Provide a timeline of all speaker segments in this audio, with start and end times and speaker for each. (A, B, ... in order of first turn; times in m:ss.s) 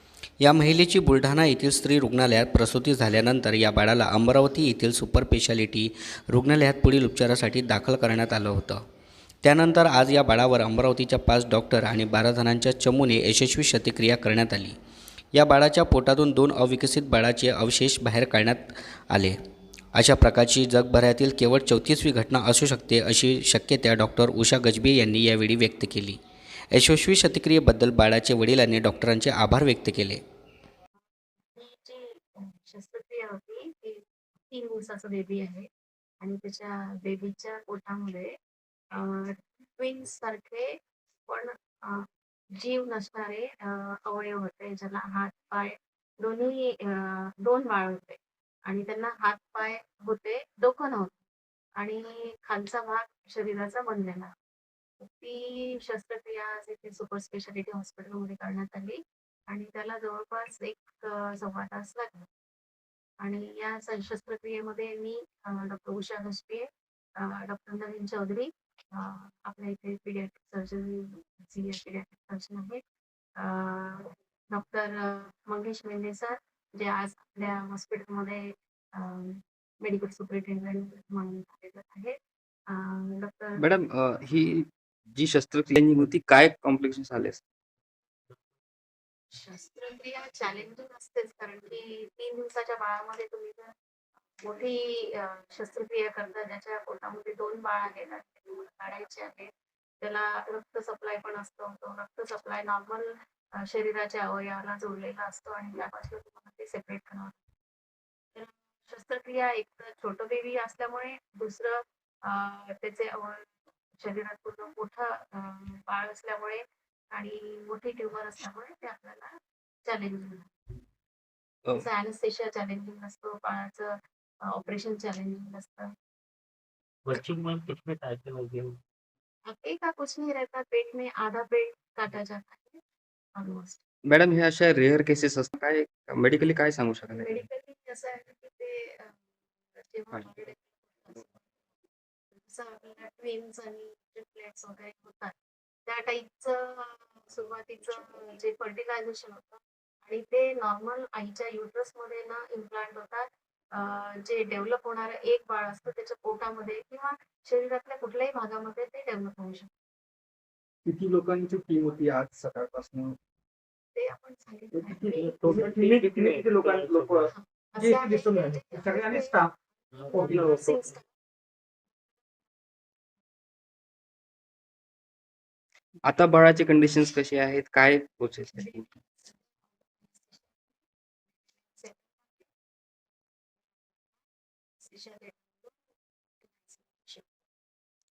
0:00.4-0:08.8 A
0:09.4-0:14.8 A
0:15.3-0:19.4 A
0:19.9-0:26.2 A
0:26.7-0:30.2 A
0:31.5-0:35.7 B
0:36.2-0:38.3 B
0:38.9-0:42.0 B
0:42.6-0:51.2 B
0:51.8-0:54.3 B
0:55.0-1:02.2 B
1:03.2-1:12.8 B
1:13.4-1:22.2 B
1:22.7-1:23.6 B
1:23.6-1:27.4 C
1:29.3-1:33.7 B
1:34.4-1:47.3 B
1:48.3-1:59.3 B
1:59.8-2:00.5 B
2:01.7-2:05.9 B
2:07.0-2:08.8 D
2:09.5-2:12.8 B
2:13.4-2:13.8 B
2:14.1-2:17.4 C
2:17.2-2:19.2 B
2:19.7-2:21.7 B
2:22.4-2:25.3 B
2:25.8-2:39.7 B
2:40.8-2:43.2 E
2:43.9-2:45.4 B
2:44.8-2:49.5 E
2:45.2-2:47.3 D
2:47.3-2:49.5 B
2:49.9-2:51.0 D
2:50.1-2:51.0 B
2:50.1-2:50.8 E
2:56.0-2:58.8 C
2:58.6-3:00.7 B
3:01.6-3:02.5 B
3:04.0-3:04.2 B
3:04.8-3:05.8 B
3:06.4-3:07.3 B